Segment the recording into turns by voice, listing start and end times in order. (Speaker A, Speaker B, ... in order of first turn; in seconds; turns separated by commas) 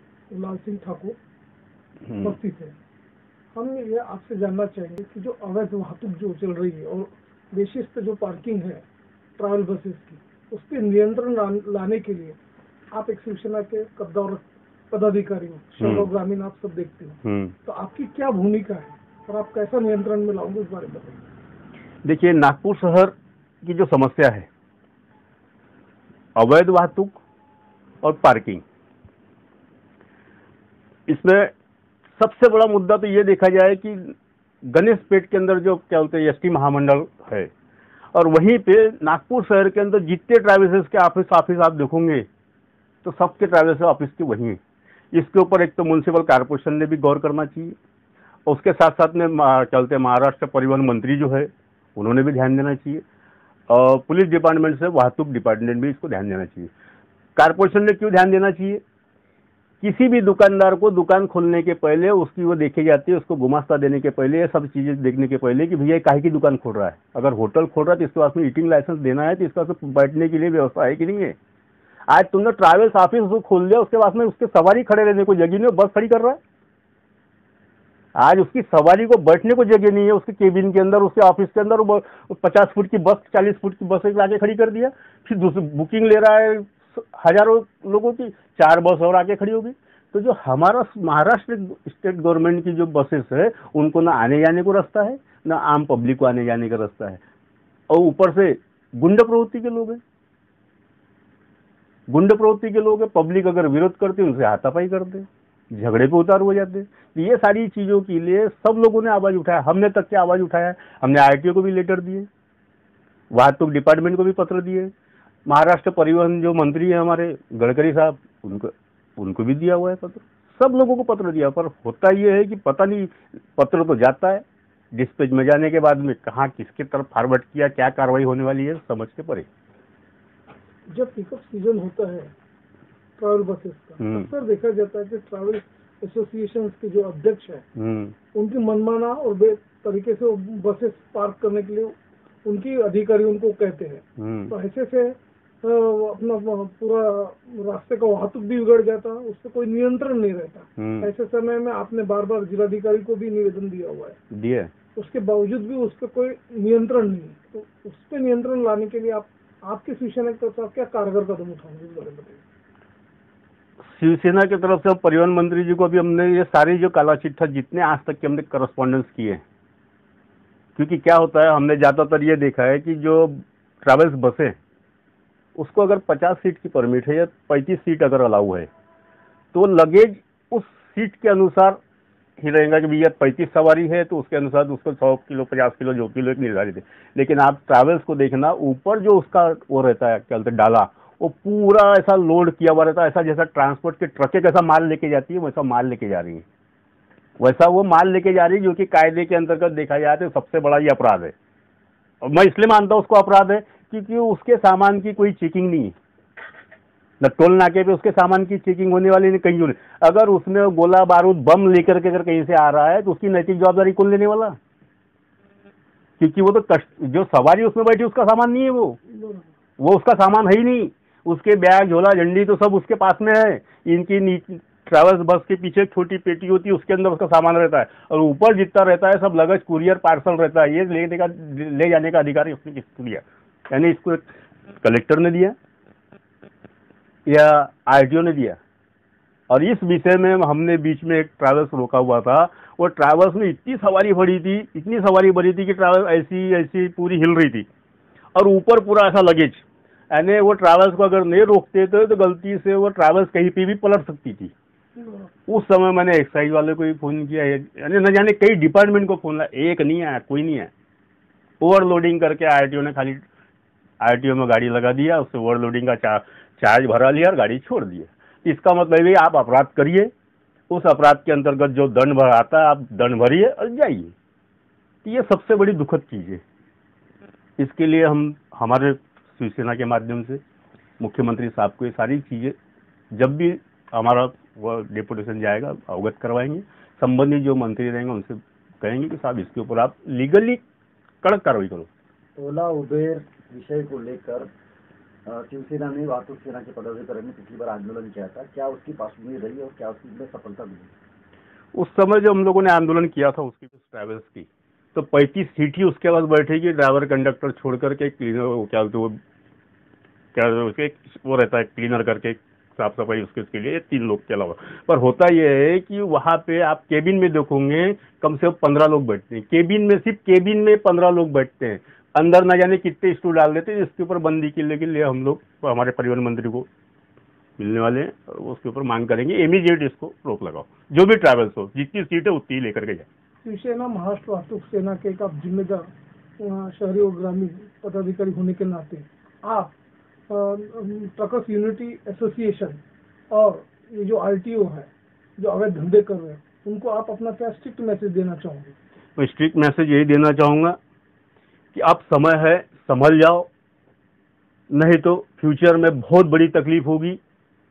Speaker A: 0.3-1.1, Speaker B: 2.1-2.3, Speaker A: 2.2-2.8, Speaker A: 3.5-8.8, Speaker A: 9.4-12.4, Speaker A: 12.9-21.2, Speaker B: 15.8-16.1, Speaker B: 17.2-17.5, Speaker B: 22.0-24.5, Speaker B: 26.4-27.2, Speaker B: 28.0-28.6, Speaker B: 31.1-31.5, Speaker B: 32.2-34.1, Speaker B: 34.6-37.5, Speaker B: 38.1-42.2, Speaker B: 43.0-44.6, Speaker B: 45.1-47.7, Speaker B: 48.5-53.0, Speaker B: 53.7-56.7, Speaker B: 57.4-58.8, Speaker B: 59.8-71.3, Speaker B: 72.1-76.4, Speaker B: 78.1-97.2, Speaker B: 97.9-100.0, Speaker B: 102.1-112.3, Speaker B: 113.3-114.9, Speaker B: 115.5-129.5, Speaker A: 130.9-132.3, Speaker A: 133.2-137.6, Speaker B: 134.0-134.3, Speaker B: 137.8-138.1, Speaker A: 138.3-141.9, Speaker A: 142.4-154.2, Speaker B: 144.2-144.5, Speaker B: 150.8-151.1, Speaker B: 154.3-154.7, Speaker A: 154.9-162.4, Speaker B: 163.8-169.4, Speaker B: 170.8-174.6, Speaker B: 175.6-178.7, Speaker B: 179.5-181.8, Speaker B: 182.4-196.4, Speaker B: 197.4-201.3, Speaker B: 202.2-205.9, Speaker B: 207.2-214.6, Speaker B: 216.2-219.0, Speaker A: 219.1-219.5, Speaker B: 219.8-234.3, Speaker B: 234.8-235.6, Speaker B: 237.2-238.6, Speaker B: 239.5-247.7, Speaker B: 248.3-254.5, Speaker B: 255.5-260.7, Speaker B: 261.6-263.2, Speaker B: 264.0-270.1, Speaker B: 270.7-274.1, Speaker B: 275.0-276.4, Speaker B: 277.6-280.4, Speaker B: 281.0-282.5, Speaker B: 283.1-290.6, Speaker B: 291.2-291.9, Speaker C: 292.4-294.5, Speaker C: 295.2-300.9, Speaker B: 301.7-309.2, Speaker B: 310.3-326.7, Speaker B: 327.6-333.1, Speaker A: 333.4-335.9, Speaker A: 336.4-339.7, Speaker A: 340.3-348.7, Speaker B: 349.2-350.8, Speaker B: 351.7-353.5, Speaker B: 354.7-357.2